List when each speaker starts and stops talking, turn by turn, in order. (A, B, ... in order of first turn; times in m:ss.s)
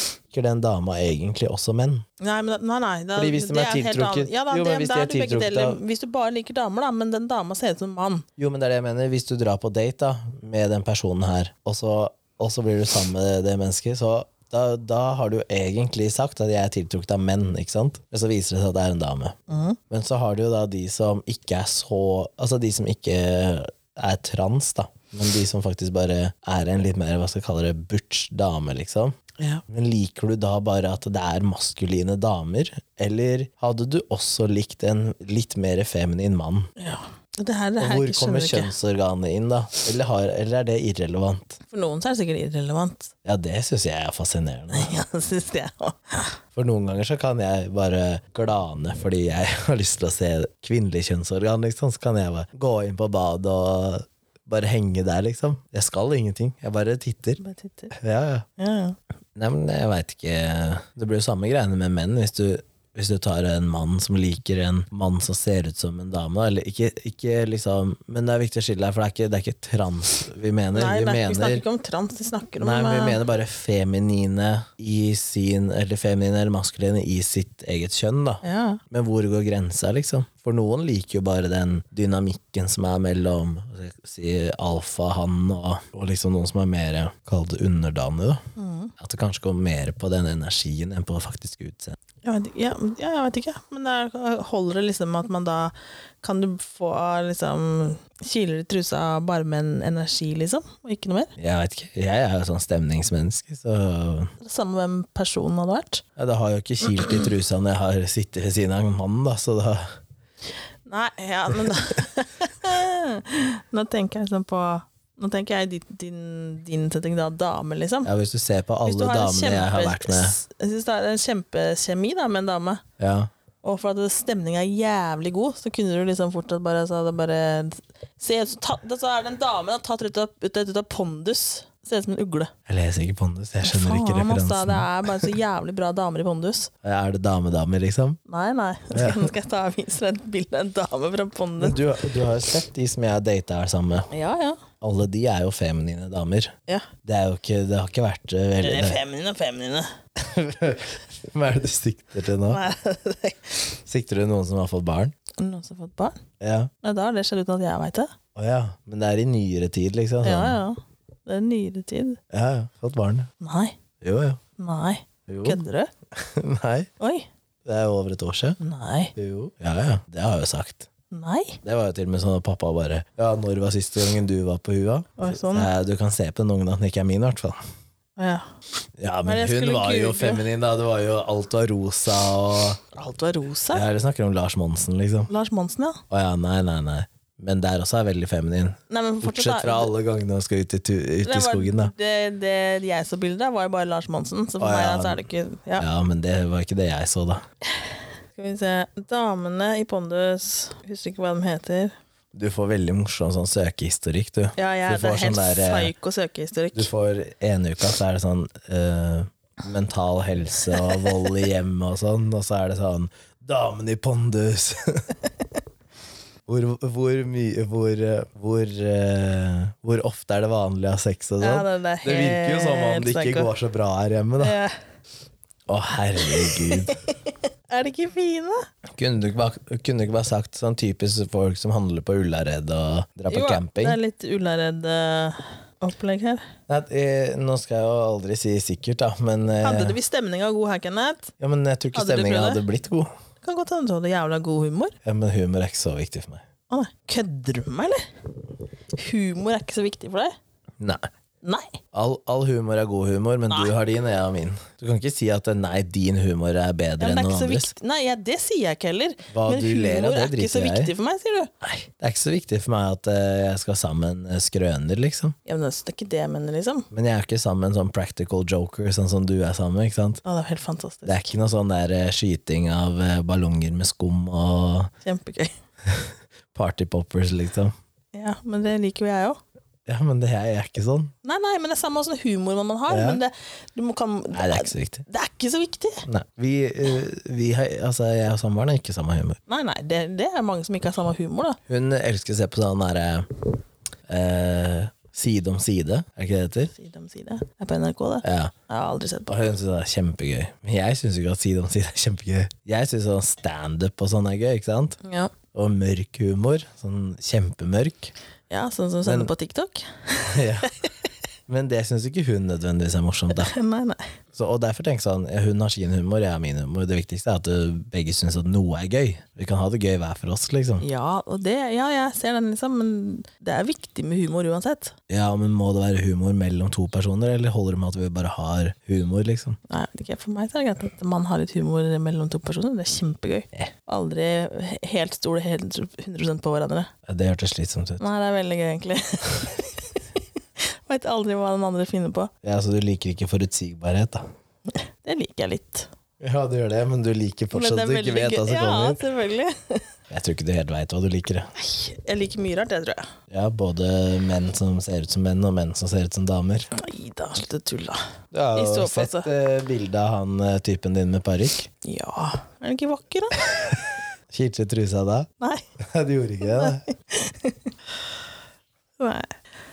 0:00.3-0:02.0 A
0:02.2-0:08.2 B
0:03.2-0:05.8 A
0:08.4-0:19.4 A
0:19.5-0:19.8 B
0:19.9-0:29.2 A
0:29.7-0:36.7 A
0:36.8-0:38.7 B
0:37.8-0:41.6 A
0:41.7-0:43.1 B
0:43.2-0:44.9 A
0:44.7-0:46.3 B
0:46.5-0:57.4 A
0:57.4-0:57.9 B
0:57.9-0:58.4 A
0:58.6-0:59.0 B
0:59.4-1:11.6 A
1:10.7-1:13.2 B
1:12.6-1:28.4 A
1:18.4-1:18.8 B
1:28.6-1:28.9 B
1:29.0-1:32.0 A
1:32.2-1:41.3 B
1:41.4-1:44.3 A
1:44.4-1:46.0 B
1:46.2-1:49.8 A
1:46.9-1:47.3 B
1:50.9-1:58.1 B
1:58.0-2:00.4 A
1:58.8-2:02.8 B
2:03.0-2:03.3 A
2:03.6-2:12.5 B
2:12.7-2:15.3 A
2:13.6-2:16.7 B
2:16.8-2:18.2 A
2:18.3-2:21.8 B
2:18.9-2:19.3 A
2:21.6-2:24.1 A
2:24.1-2:24.6 B
2:24.8-2:26.5 A
2:27.0-2:29.0 A
2:28.6-2:29.9 B
2:30.2-2:32.6 A
2:32.5-2:33.6 B
2:33.9-2:35.1 A
2:35.4-2:36.2 B
2:36.4-2:36.7 A
2:36.8-2:38.1 B
2:38.3-2:40.6 A
2:40.2-2:42.2 B
2:42.3-2:43.3 A
2:43.4-2:43.8 B
2:44.0-2:44.4 A
2:44.6-2:45.9 B
2:45.3-2:45.6 A
2:46.1-2:46.9 A
2:47.0-2:47.3 B
2:47.6-2:48.6 A
2:48.6-2:49.1 B
2:49.2-2:50.9 A
2:51.1-2:51.6 B
2:51.6-2:57.6 A
2:55.2-2:55.7 B
2:58.2-2:58.4 B
2:59.0-3:02.8 A
2:59.2-3:00.4 B
3:02.9-3:03.8 B
3:03.7-3:05.3 A
3:05.3-3:06.0 B
3:06.1-3:11.9 A
3:08.9-3:09.9 B
3:11.2-3:15.8 B
3:14.6-3:15.2 A
3:15.8-3:17.4 A
3:18.3-3:21.9 B
3:22.3-3:25.9 A
3:24.6-3:26.9 B
3:26.7-3:35.1 A
3:30.7-3:31.3 B
3:36.5-3:44.6 A
3:41.4-3:43.5 B
3:44.4-3:44.7 B
3:45.7-3:47.0 A
3:46.2-3:48.6 B
3:49.0-3:54.0 A
3:53.3-3:56.4 B
3:56.7-4:00.0 A
3:59.6-4:01.3 B
4:01.4-4:03.1 A
4:01.9-4:02.6 B
4:03.4-4:04.9 B
4:05.0-4:06.4 A
4:06.7-4:08.0 B
4:08.9-4:10.3 B
4:10.8-4:11.1 A
4:11.4-4:11.8 B
4:11.9-4:17.7 A
4:17.0-4:21.5 B
4:19.3-4:20.9 A
4:21.6-4:25.3 A
4:25.4-4:26.9 B
4:26.9-4:30.2 A
4:30.2-4:31.1 B
4:31.0-4:34.9 A
4:35.0-4:35.5 B
4:35.8-4:37.7 A
4:38.1-4:39.4 B
4:39.9-4:41.1 A
4:41.2-4:46.0 B
4:42.9-4:43.2 A
4:44.3-4:45.0 A
4:46.1-4:49.4 A
4:49.5-4:51.6 B
4:51.7-4:53.4 A
4:54.1-4:56.7 A
4:56.7-4:59.4 B
4:58.2-4:58.5 A
4:59.3-5:05.0 A
5:05.0-5:05.3 B
5:05.5-5:08.1 A
5:08.5-5:10.7 B
5:09.0-5:09.3 A
5:10.3-5:10.7 A
5:11.5-5:13.5 A
5:13.3-5:14.0 B
5:14.3-5:20.8 A
5:20.8-5:25.0 B
5:25.1-5:29.6 A
5:29.7-5:36.9 B
5:37.0-5:38.0 A
5:38.0-5:40.0 B
5:40.6-5:42.3 B
5:42.4-5:44.2 A
5:44.7-5:45.9 B
5:46.2-5:49.0 A
5:47.5-5:49.8 B
5:50.1-5:51.5 A
5:51.6-5:53.1 B
5:53.3-5:56.7 A
5:56.7-5:58.0 B
5:58.3-6:01.7 A
5:58.5-5:59.3 B
6:01.8-6:03.4 B
6:03.5-6:03.8 A
6:04.3-6:05.3 A
6:05.8-6:06.8 A
6:06.4-6:07.7 B
6:09.0-6:09.3 B